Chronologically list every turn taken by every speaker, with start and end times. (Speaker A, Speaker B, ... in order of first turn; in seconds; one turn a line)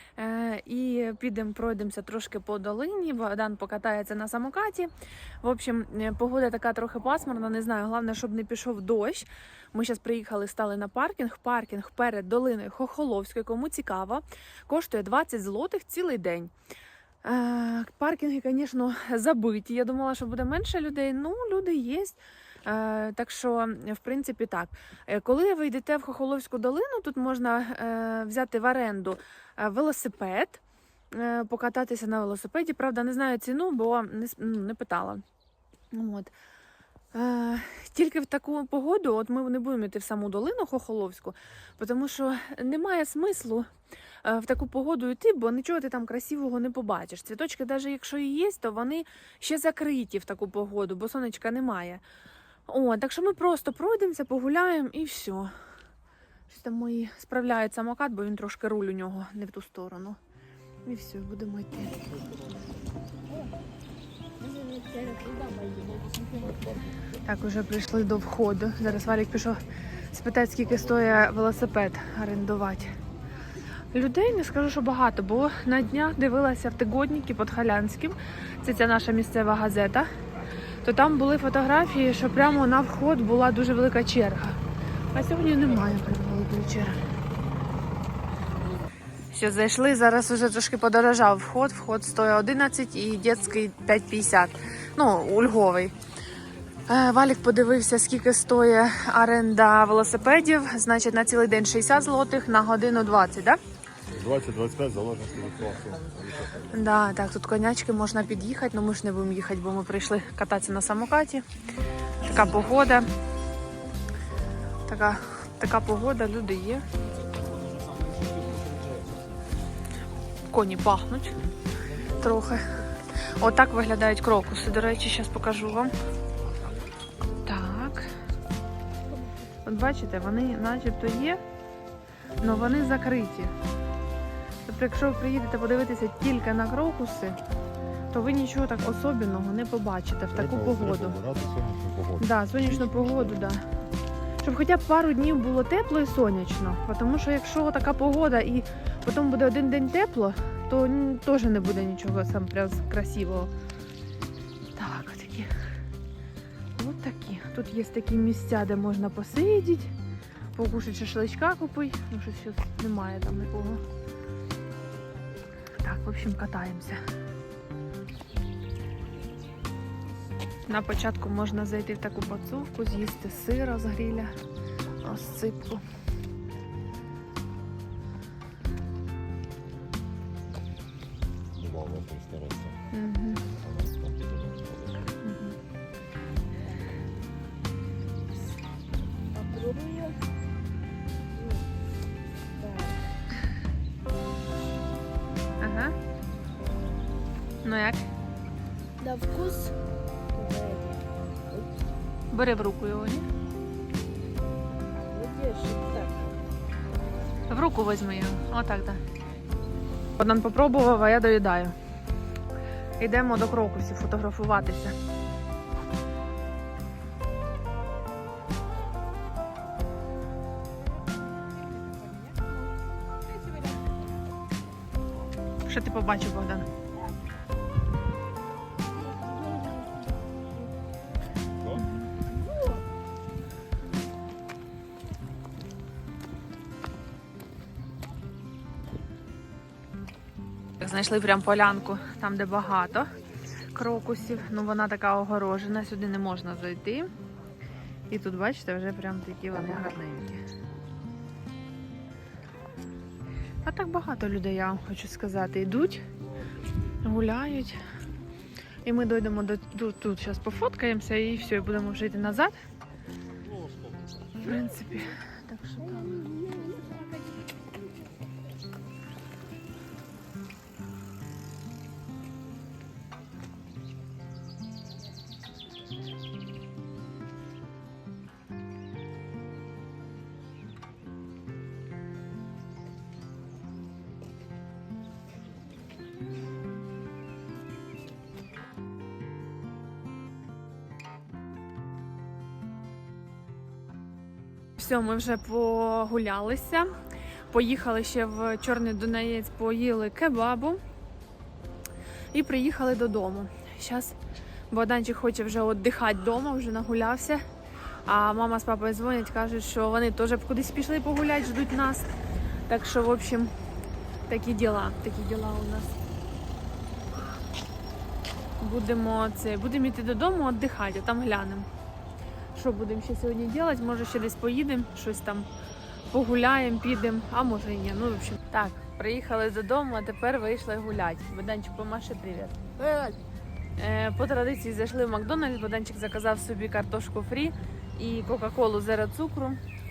Speaker A: 0.2-4.9
Speaker A: 5.4-16.5
Speaker A: 17.2-30.6
Speaker A: 31.1-35.2
Speaker A: 35.9-36.3
Speaker A: 37.1-43.7
Speaker A: 44.2-52.0
Speaker A: 52.7-55.5
Speaker A: 56.5-60.2
Speaker A: 60.9-62.0
Speaker B: 64.4-66.7
Speaker A: 67.2-72.9
Speaker A: 73.9-80.1
Speaker A: 80.8-84.6
Speaker A: 85.1-87.0
Speaker A: 89.3-96.0
Speaker A: 96.9-103.6
Speaker C: 104.1-106.7
Speaker A: 106.7-111.5
Speaker A: 112.2-113.1
Speaker A: 114.9-116.8
Speaker A: 120.5-121.4
Speaker A: 122.0-122.8
Speaker A: 123.4-125.9
Speaker A: 127.4-128.1
Speaker A: 129.6-131.4
Speaker A: 132.4-133.5
Speaker A: 134.7-137.4
Speaker A: 138.1-141.2
Speaker C: 140.3-143.2
Speaker A: 142.2-143.7
Speaker A: 144.4-153.5
Speaker A: 154.8-155.5
Speaker A: 156.8-159.9
Speaker A: 160.5-163.8
Speaker A: 165.8-167.0
Speaker A: 170.7-174.3
Speaker A: 175.0-175.8
Speaker C: 181.6-182.8
Speaker A: 182.9-183.4
Speaker C: 183.4-185.1
Speaker A: 185.2-185.6
Speaker B: 189.3-190.2
Speaker B: 191.3-191.7
Speaker B: 192.6-193.0
Speaker A: 195.6-196.0
Speaker A: 197.6-198.1
Speaker B: 199.0-199.8
Speaker B: 200.3-201.8
Speaker A: 202.3-203.3
Speaker B: 205.0-206.4
Speaker A: 207.5-209.0
Speaker A: 210.2-211.8
Speaker A: 213.0-215.0
Speaker B: 221.5-224.2
Speaker A: 225.7-226.7
Speaker B: 229.2-230.0
Speaker A: 231.7-232.1
Speaker B: 232.3-232.8
Speaker A: 240.8-243.1
Speaker A: 243.7-247.1
Speaker A: 248.1-250.4
Speaker A: 253.6-256.1
Speaker A: 257.0-257.8
Speaker A: 258.8-262.6
Speaker A: 264.4-266.5
Speaker B: 265.9-268.2
Speaker A: 294.8-297.0
Speaker A: 297.5-300.8
Speaker A: 302.3-304.2
Speaker A: 304.7-307.4
Speaker A: 308.1-312.1
Speaker A: 312.7-313.5
Speaker A: 314.3-316.0
Speaker A: 318.6-321.7
Speaker A: 322.5-325.5
Speaker A: 326.1-333.1
Speaker A: 333.8-339.6